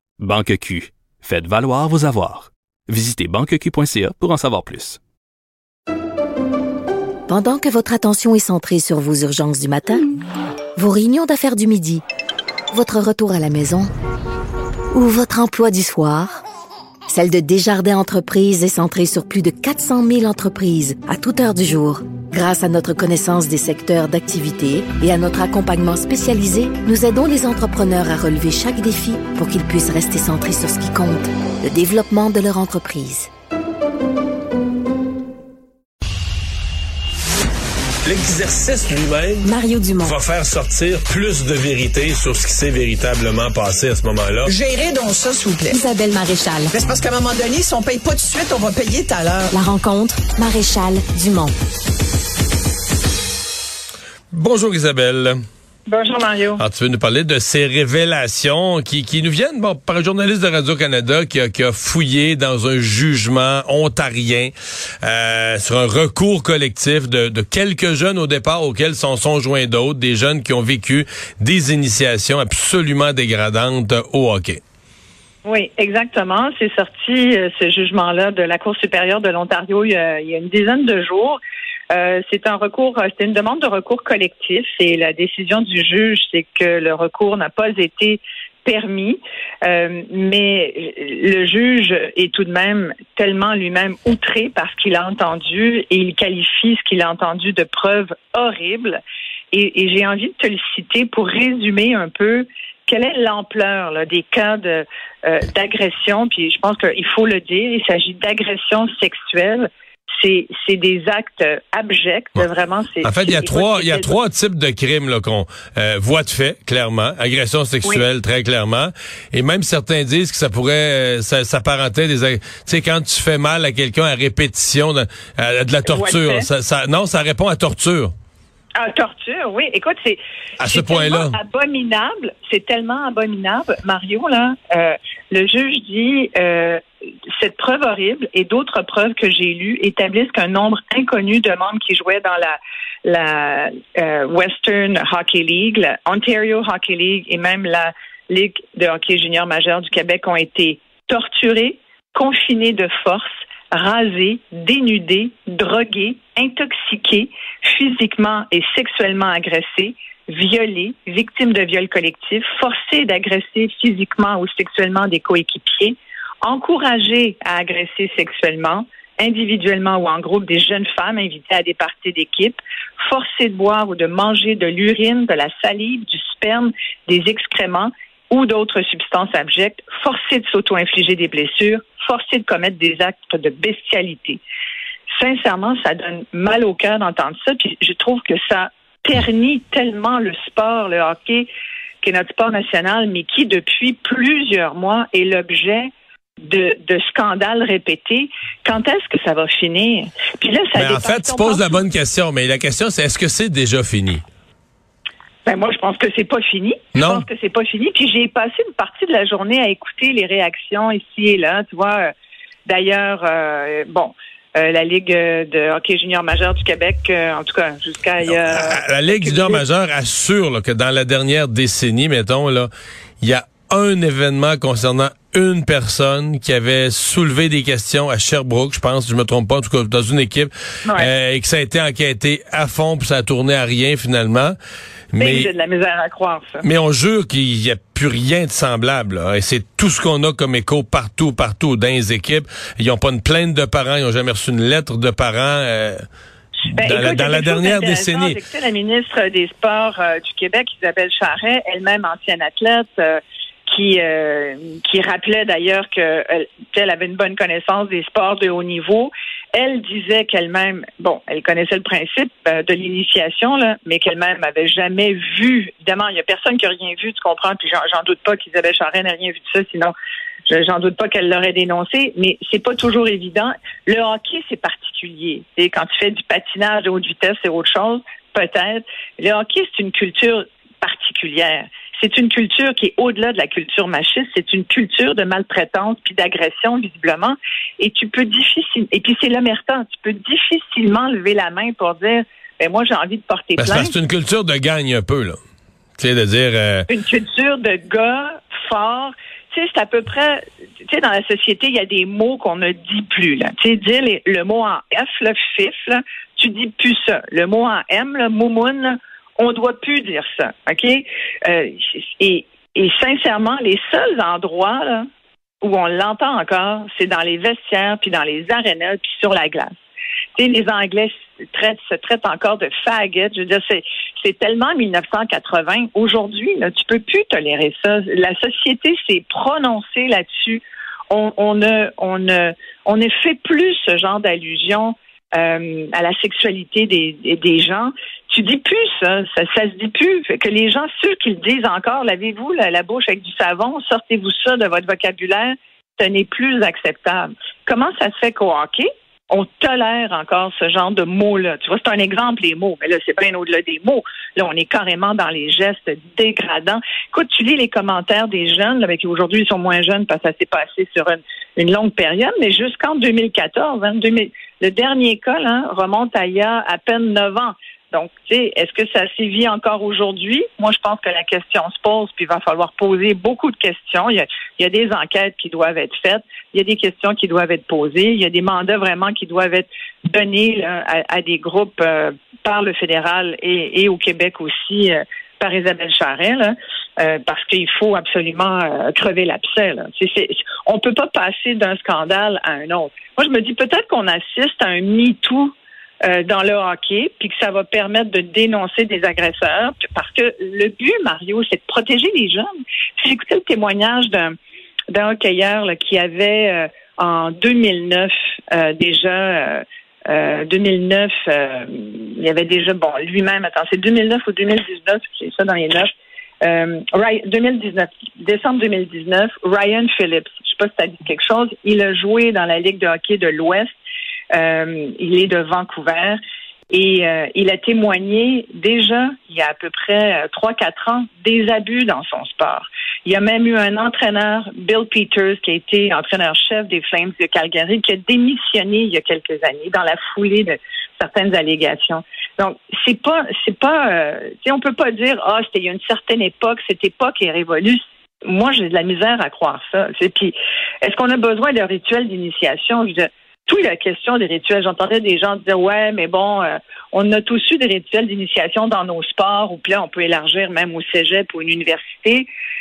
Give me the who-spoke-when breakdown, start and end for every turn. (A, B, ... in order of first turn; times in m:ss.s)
0:00.2-0:05.0 A
0:07.3-0:10.0 B
0:10.8-0:12.0 B
0:12.7-0:13.9 B
0:14.9-0:16.4 B
0:17.1-0:33.3 B
0:38.0-0:44.5 C
0:44.5-0:49.8 D
0:49.6-0:49.9 B
0:50.3-0:51.4 D
0:54.3-0:55.4 C
0:55.9-0:56.6 E
0:56.6-1:14.6 C
1:15.4-1:21.4 E
1:21.9-1:39.0 E
1:39.5-1:54.2 E
1:53.0-2:08.1 C
2:05.9-2:06.5 E
2:08.8-2:16.8 E
2:10.6-2:11.4 C
2:17.3-3:04.4 E
3:05.1-3:11.5 E
3:12.0-3:15.9 E
3:16.4-3:21.8 E
3:20.8-3:24.2 C
3:25.4-3:32.1 E
3:26.9-3:27.2 C
3:32.7-3:39.6 E
3:38.3-3:42.7 C
3:43.2-3:54.6 C
3:55.1-3:55.5 C
3:55.2-3:56.6 E
3:56.6-4:06.0 C
4:06.7-4:08.4 C
4:06.8-4:29.9 E
4:30.5-4:53.9 E
4:53.6-4:55.4 C
4:56.0-4:56.9 C
4:56.9-5:15.1 E
5:15.6-5:19.7 E
5:20.4-6:35.5 E
6:36.0-6:42.4 E
6:43.0-6:44.3 E
6:44.9-6:55.9 E
6:56.4-7:03.8 E
7:04.3-7:06.2 E
7:06.7-7:42.3 E